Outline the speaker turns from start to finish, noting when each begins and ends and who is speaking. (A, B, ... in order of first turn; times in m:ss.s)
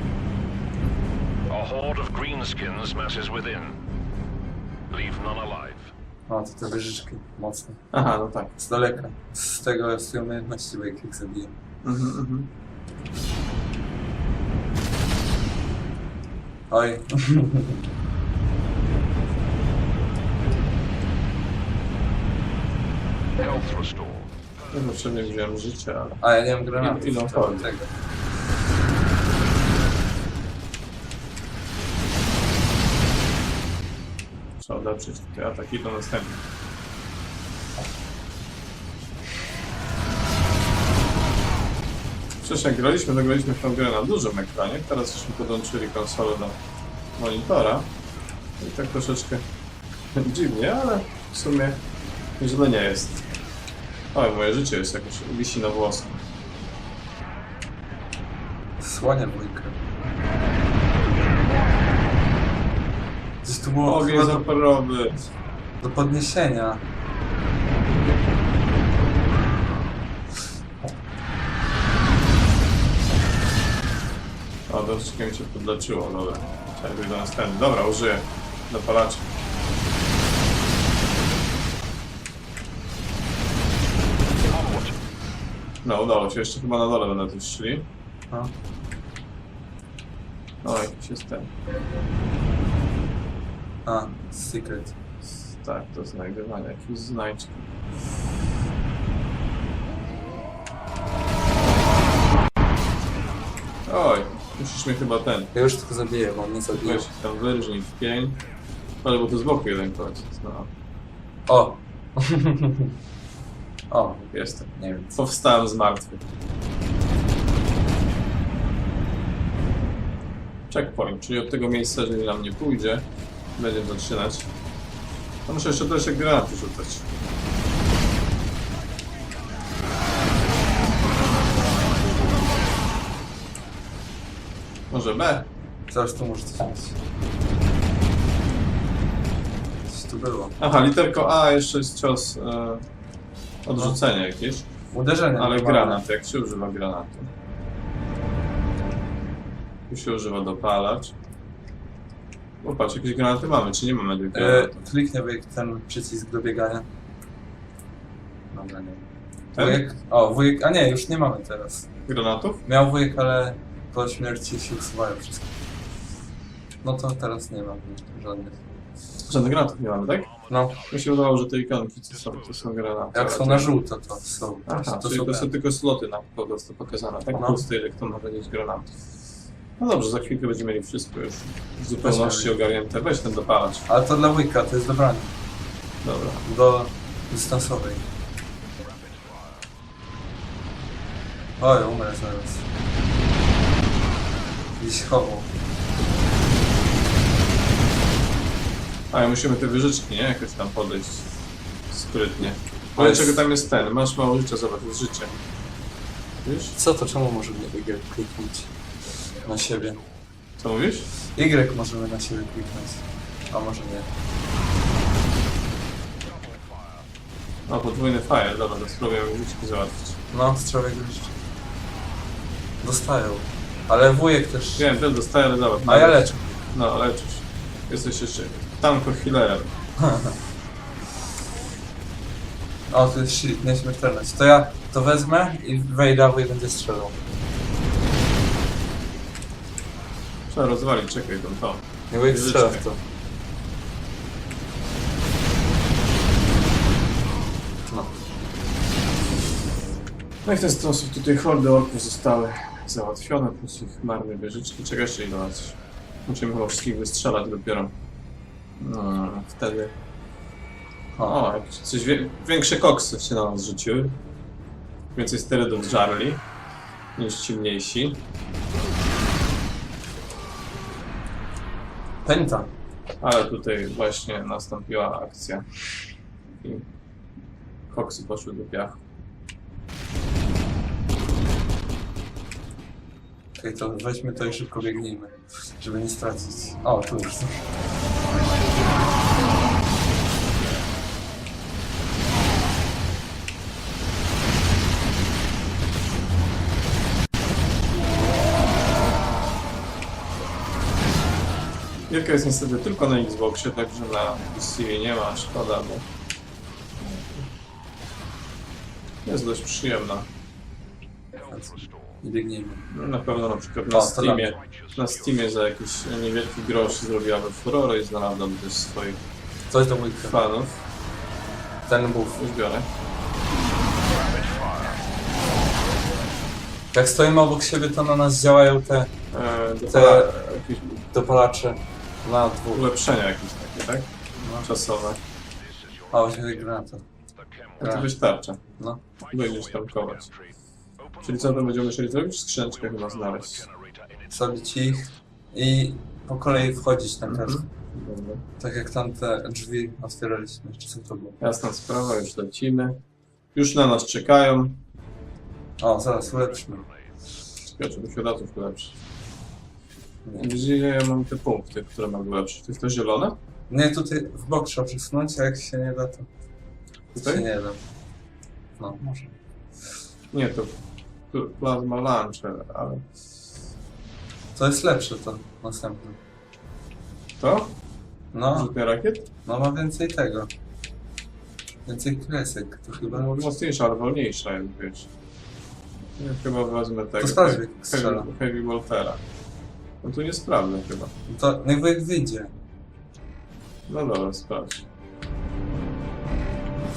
0:01.5-0:03.8 A
0:04.9-0:05.9 A
0:06.3-0:07.8 B
0:07.9-0:08.6 C
0:08.6-0:11.6 B
0:11.8-0:12.5 C
0:16.7-0:17.8 B
0:23.4-0:24.3 A
0:24.7-0:26.2 C
0:26.2-0:27.9 B
0:26.8-0:27.7 C
0:34.6-0:36.4 C
0:42.4-0:46.6 C
0:47.2-0:47.9 C
0:48.6-0:49.4 C
0:50.1-0:51.8 C
0:52.4-0:53.3 C
0:54.1-0:56.2 C
0:58.8-0:59.8 B
1:03.4-1:04.4 B
1:03.8-1:05.3 C
1:05.8-1:06.8 B
1:14.7-1:19.3 C
1:24.4-1:25.0 A
1:25.8-1:27.8 C
1:30.6-1:31.5 C
1:33.8-1:34.9 B
1:35.5-1:37.7 C
1:43.8-1:45.5 C
1:45.5-1:47.0 B
1:46.8-1:48.4 C
1:49.0-1:50.7 C
1:51.5-1:52.9 B
1:53.9-1:55.1 B
1:54.3-1:56.2 C
2:00.7-2:03.0 C
2:03.6-2:04.5 C
2:05.5-2:07.1 C
2:14.9-2:15.5 C
2:15.9-2:17.0 B
2:19.9-2:20.6 B
2:20.6-2:22.8 C
2:23.6-2:24.7 C
2:24.9-2:26.0 B
2:25.3-2:27.3 C
2:29.9-2:31.1 C
2:32.6-2:34.8 C
2:34.3-2:36.9 B
2:38.5-2:41.9 B
2:39.5-2:39.8 C
2:42.1-2:42.6 C
2:42.6-2:45.5 B
2:46.8-2:48.6 B
2:49.2-2:50.3 C
2:50.5-2:50.8 B
2:50.9-2:53.7 C
2:53.1-2:55.5 B
2:54.7-2:58.9 C
2:57.4-2:57.6 B
2:59.8-3:03.9 C
3:02.0-3:02.5 B
3:03.9-3:05.3 B
3:06.0-3:06.4 C
3:06.4-3:08.1 B
3:08.8-3:09.6 A
3:11.6-3:12.6 B
3:14.8-3:15.5 B
3:19.1-3:21.3 C
3:21.9-3:25.4 C
3:23.0-3:23.4 B
3:26.4-3:26.7 C
3:26.7-3:28.7 B
3:29.4-3:30.0 B
3:30.6-3:31.1 C
3:31.3-3:34.1 B
3:36.2-3:37.0 A
3:37.7-3:40.2 C
3:40.3-3:41.3 B
3:42.8-3:44.9 B
3:44.8-3:49.7 C
3:45.9-3:46.4 B
3:50.0-3:50.3 B
3:52.9-3:57.2 B
4:00.5-4:02.8 C
4:02.1-4:03.0 B
4:07.9-4:08.2 B
4:10.4-4:17.9 C
4:18.8-4:19.9 C
4:21.2-4:24.2 C
4:25.1-4:26.4 C
4:27.2-4:28.2 C
4:32.2-4:32.7 B
4:33.2-4:35.8 C
4:36.6-4:36.9 C
4:37.9-4:39.0 C
4:43.6-4:47.7 B
5:02.1-5:06.0 C
5:09.2-5:10.3 C
5:11.5-5:12.9 B
5:12.9-5:19.2 C
5:13.9-5:14.5 B
5:14.6-5:15.2 A
5:19.7-5:20.4 B
5:20.2-5:20.8 C
5:21.9-5:22.4 B
5:22.3-5:22.9 C
5:24.0-5:25.0 A
5:26.9-5:29.1 B
5:29.3-5:31.1 C
5:29.9-5:30.3 B
5:31.1-5:32.9 B
5:32.7-5:34.1 C
5:34.4-5:34.7 B
5:34.6-5:35.2 C
5:35.6-5:36.6 A
5:36.1-5:37.0 B
5:37.3-5:38.0 A
5:37.8-5:38.6 C
5:37.8-5:38.1 B
5:39.2-5:41.7 A
5:39.3-5:40.3 C
5:41.2-5:43.6 C
5:42.8-5:44.9 A
5:44.3-5:47.6 B
5:47.2-5:48.4 C
5:48.6-5:51.4 B
5:51.4-5:53.0 C
5:53.5-5:54.8 C
5:55.8-5:56.8 B
5:57.6-5:59.0 C
6:00.2-6:00.5 B
6:00.4-6:03.4 C
6:03.7-6:06.3 B
6:07.1-6:07.4 C
6:07.1-6:07.8 B
6:08.8-6:09.4 B
6:10.3-6:10.8 C
6:11.3-6:13.0 C
6:14.5-6:16.2 B
6:17.4-6:17.8 C
6:18.3-6:18.7 B
6:18.5-6:19.3 C
6:19.4-6:20.5 B
6:21.8-6:23.5 B
6:23.1-6:25.1 C
6:26.2-6:29.2 C
6:27.2-6:28.3 B
6:30.0-6:31.1 C
6:31.3-6:32.6 B
6:33.9-6:34.8 C